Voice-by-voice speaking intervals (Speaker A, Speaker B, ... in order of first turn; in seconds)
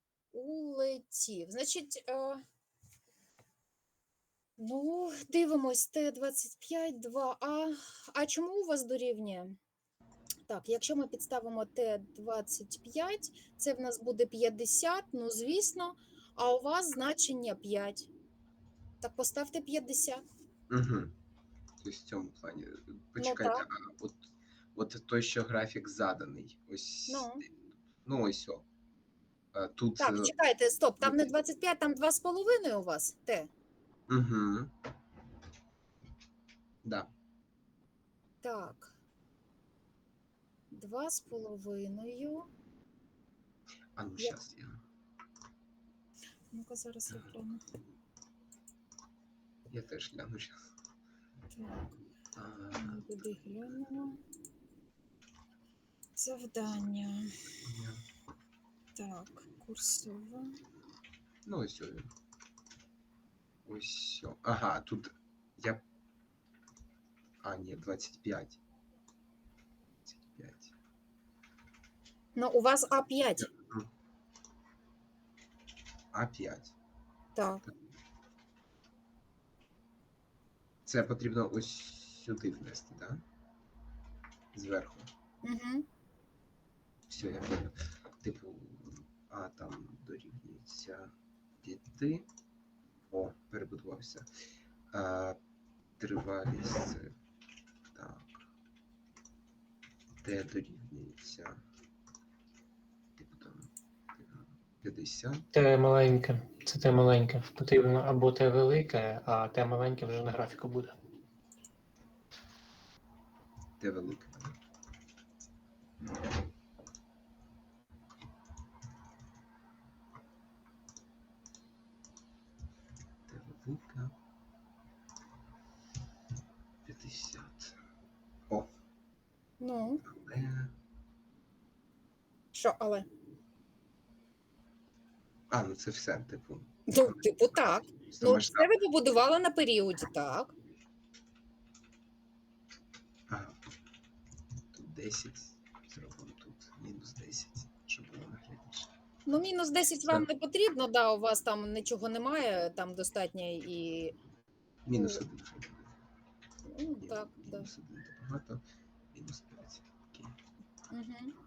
Speaker A: 0.3-2.4, 4.6-9.6, 10.5-18.1, 19.0-20.2, 23.2-23.6, 27.1-27.4, 30.0-33.5, 38.4-39.0, 40.7-42.5, 46.5-47.6, 51.5-51.9, 52.7-54.2, 56.2-57.4, 59.0-60.6, 72.4-73.5, 77.3-77.6, 85.4-85.9, 129.6-130.0, 132.5-133.1, 136.9-140.5, 149.3-154.1, 154.9-155.2, 156.7-157.7, 160.9-161.3
Speaker B: 20.7-21.1, 21.8-28.6, 29.5-30.3, 31.0-31.3, 34.1-34.7, 36.8-37.1, 44.0-44.8, 47.1-47.4, 49.7-50.6, 52.4-53.0, 57.6-58.0, 61.5-62.1, 63.7-65.8, 67.4-68.6, 70.1-70.7, 73.5-73.9, 76.1-76.8, 80.9-83.2, 84.5-85.1, 87.1-92.3, 93.1-94.3, 94.9-95.4, 96.0-97.1, 97.9-98.5, 100.2-101.6, 103.2-105.5, 113.8-114.6, 123.3-124.2, 126.8-127.8, 130.0-130.8, 135.5-138.7, 143.3-143.6, 144.7-148.9, 154.9-155.9, 157.0-158.6, 159.1-160.4
Speaker C: 105.5-111.0